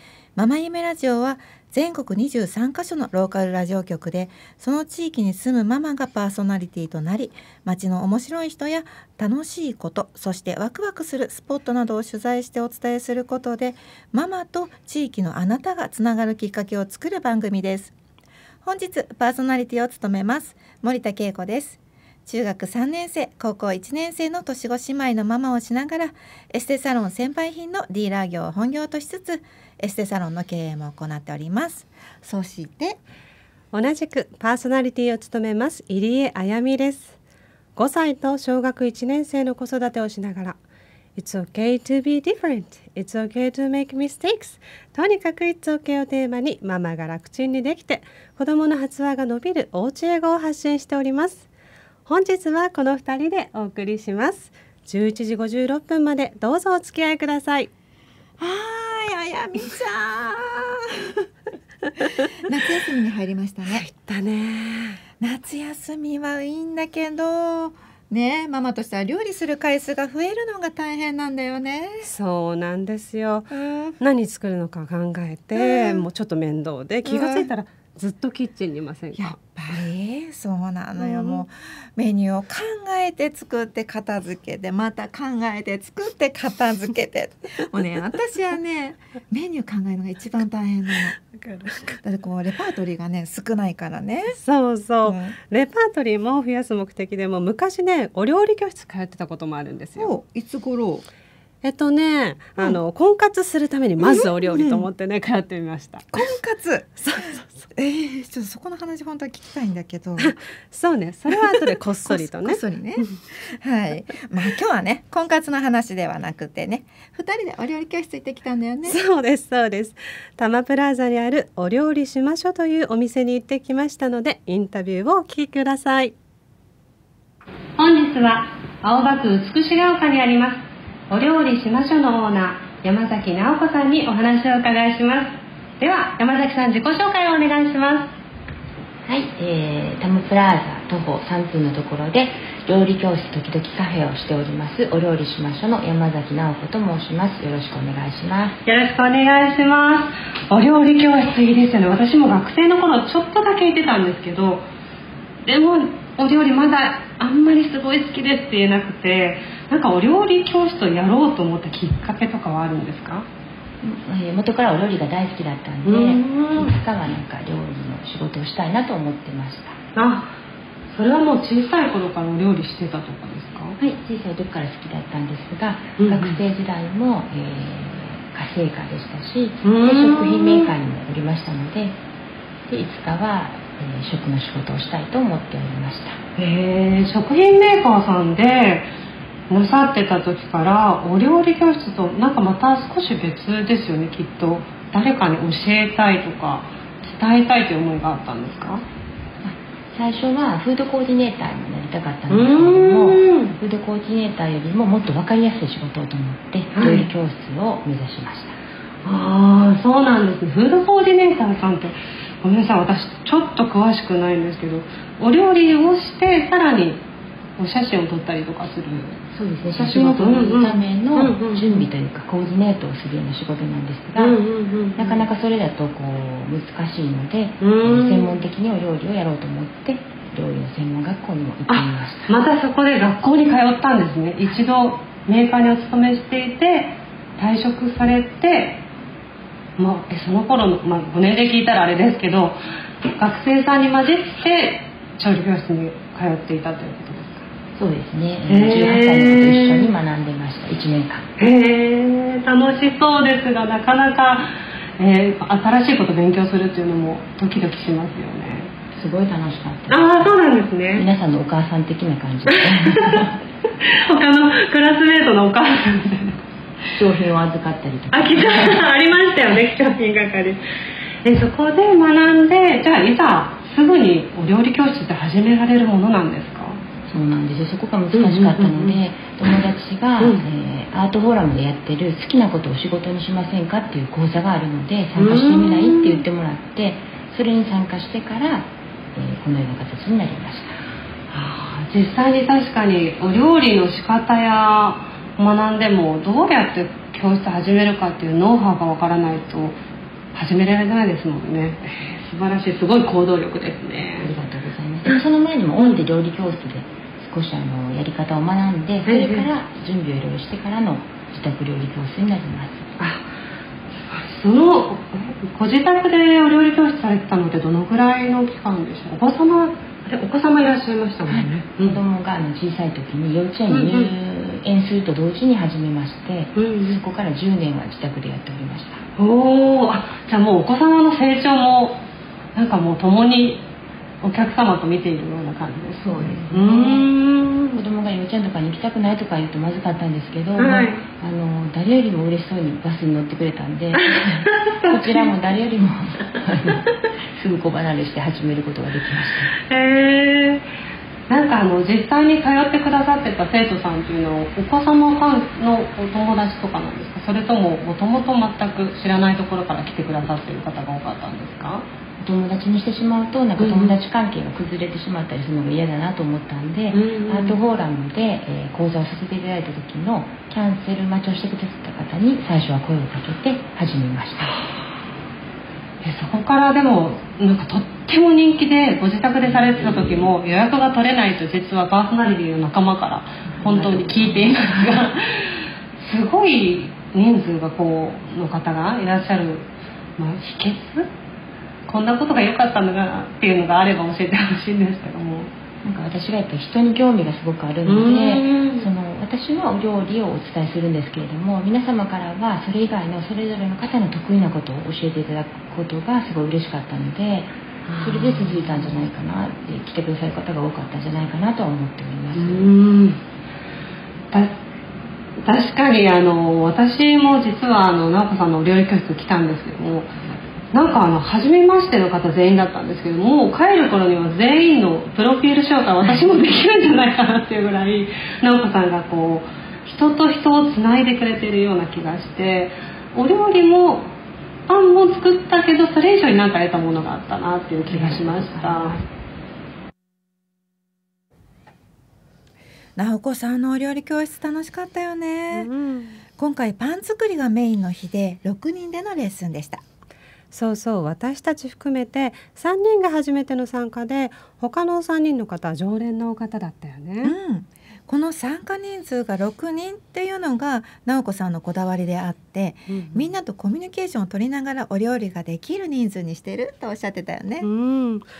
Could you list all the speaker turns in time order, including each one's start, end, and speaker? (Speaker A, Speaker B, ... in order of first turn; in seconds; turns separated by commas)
Speaker A: 0.3-17.9, Speaker A: 18.6-33.0, Speaker B: 33.7-37.2, Speaker B: 37.8-40.6, Speaker B: 41.1-51.5, Speaker B: 52.0-57.7, Speaker A: 58.4-61.2, Speaker A: 62.4-63.9, Speaker B: 63.6-65.0, Speaker A: 65.2-72.1, Speaker B: 72.0-79.3, Speaker A: 73.5-74.0, Speaker A: 75.5-76.1, Speaker A: 77.0-77.5, Speaker A: 79.1-91.2, Speaker B: 81.0-81.4, Speaker B: 91.3-92.0, Speaker A: 92.0-94.4, Speaker B: 94.4-100.1, Speaker A: 95.0-95.3, Speaker A: 100.0-101.0, Speaker B: 101.6-106.1, Speaker A: 104.0-104.8, Speaker A: 106.1-110.3, Speaker B: 107.0-107.6, Speaker B: 110.2-113.2, Speaker A: 111.5-119.0, Speaker B: 118.8-126.1, Speaker B: 127.8-138.1, Speaker C: 139.0-148.6, Speaker B: 148.7-154.7, Speaker B: 155.4-163.3, Speaker C: 163.8-169.8, Speaker B: 165.8-166.7, Speaker B: 169.9-170.4, Speaker B: 170.9-173.8, Speaker C: 173.8-182.0, Speaker B: 176.0-176.4, Speaker B: 179.6-180.7, Speaker C: 182.7-186.2, Speaker B: 186.4-188.9, Speaker B: 189.5-198.8, Speaker C: 199.4-208.6, Speaker B: 202.3-203.6, Speaker B: 206.7-207.1, Speaker B: 209.0-217.0, Speaker B: 217.6-221.9, Speaker C: 219.3-224.4, Speaker B: 224.2-225.2, Speaker C: 224.9-232.3, Speaker B: 227.6-228.4, Speaker B: 231.7-238.8, Speaker B: 239.8-247.5, Speaker C: 247.7-251.2, Speaker B: 248.5-249.9, Speaker B: 251.4-258.7, Speaker C: 258.9-260.4, Speaker B: 259.9-261.1, Speaker C: 260.9-263.4, Speaker B: 262.5-263.3, Speaker B: 263.8-266.4, Speaker C: 267.0-268.9, Speaker B: 268.1-270.6, Speaker B: 271.2-276.8, Speaker C: 277.1-290.8, Speaker B: 278.1-279.0, Speaker B: 280.2-280.4, Speaker B: 285.2-286.2, Speaker B: 291.3-299.8, Speaker B: 300.3-304.3, Speaker C: 304.2-312.9, Speaker B: 309.1-309.5, Speaker B: 313.0-313.3, Speaker B: 314.0-322.0, Speaker C: 321.3-329.0, Speaker B: 323.7-324.1, Speaker B: 326.6-327.0, Speaker B: 329.2-332.0, Speaker B: 332.5-333.6, Speaker B: 334.2-337.8, Speaker C: 336.0-337.1, Speaker C: 337.7-349.5, Speaker B: 340.6-341.0, Speaker B: 343.9-345.3, Speaker B: 349.6-350.6, Speaker B: 351.3-361.9, Speaker C: 362.2-374.6, Speaker B: 363.6-364.0, Speaker B: 366.9-367.6, Speaker B: 376.0-391.1, Speaker C: 379.5-380.2, Speaker C: 383.6-385.0, Speaker B: 391.9-395.5, Speaker C: 395.8-412.7, Speaker B: 397.9-398.9, Speaker B: 407.9-408.9, Speaker B: 412.3-413.2, Speaker B: 414.3-414.6, Speaker B: 415.4-420.2, Speaker B: 420.7-434.1, Speaker B: 434.7-438.9, Speaker C: 437.9-439.1, Speaker A: 443.0-445.7, Speaker B: 445.5-446.2, Speaker A: 446.4-449.8, Speaker B: 450.5-457.3, Speaker A: 457.2-467.7, Speaker B: 462.9-463.2, Speaker B: 467.6-468.2